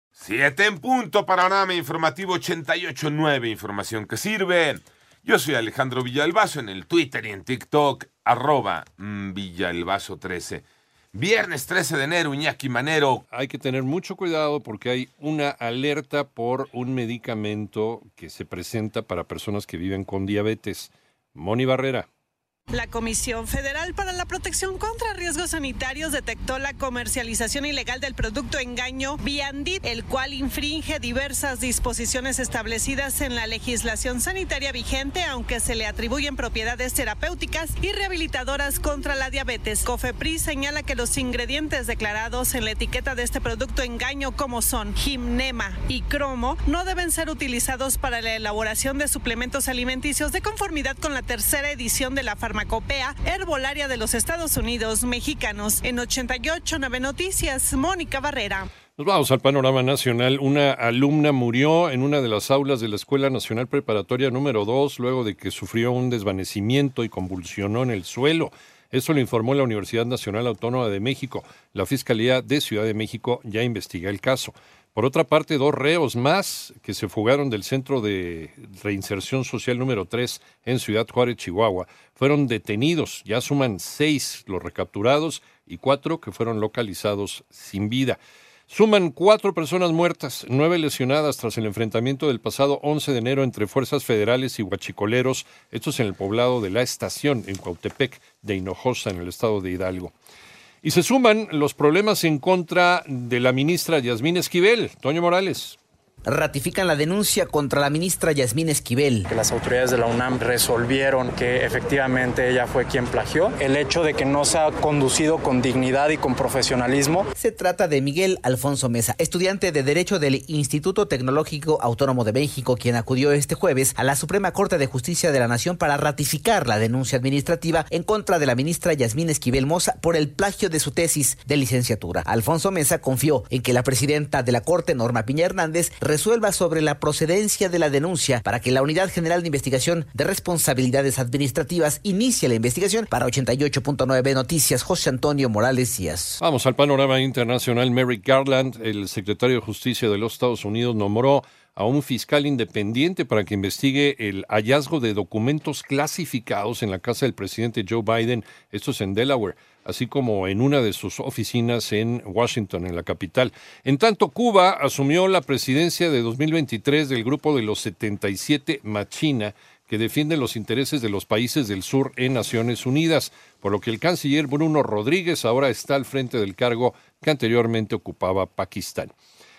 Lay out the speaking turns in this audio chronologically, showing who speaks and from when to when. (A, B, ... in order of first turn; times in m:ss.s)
0:00.2-0:13.2 A
0:13.3-0:22.1 B
0:22.7-0:58.7 C
0:59.0-1:28.2 B
1:28.7-1:40.1 B
1:40.8-1:45.8 B
1:46.2-1:49.3 D
1:49.3-1:57.3 E
1:57.4-2:26.4 D
2:26.4-2:59.1 B